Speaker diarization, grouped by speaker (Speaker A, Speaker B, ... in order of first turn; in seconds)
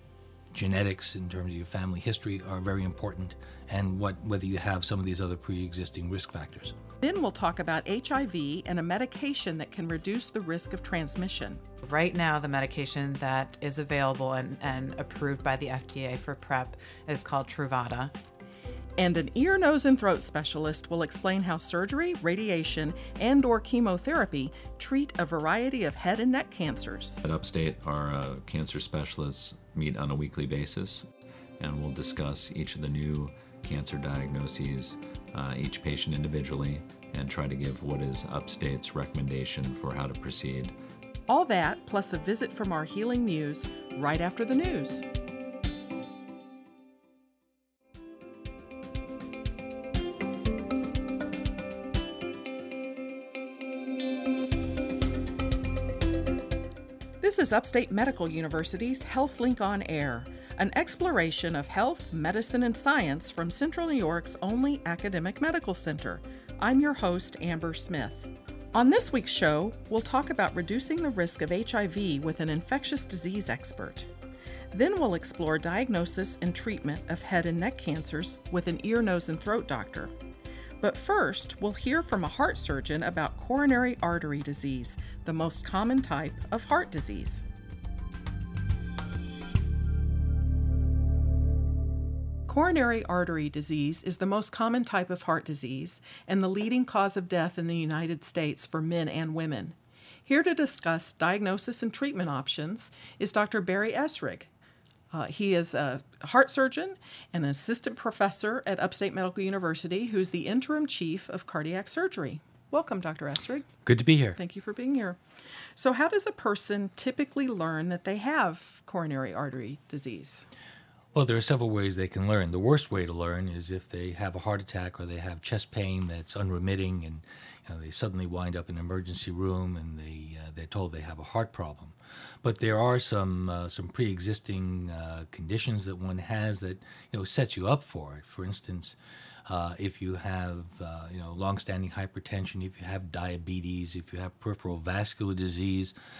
Speaker A: 0.5-6.8, 113.8-114.4, 121.1-145.9
Speaker B: 7.0-11.6, 19.0-27.2, 41.3-45.0, 57.2-74.1, 74.7-80.1, 80.8-87.4, 92.5-104.5, 105.1-113.7, 114.3-115.2, 115.8-120.5
Speaker C: 11.8-18.1
Speaker D: 27.2-31.1, 31.6-40.7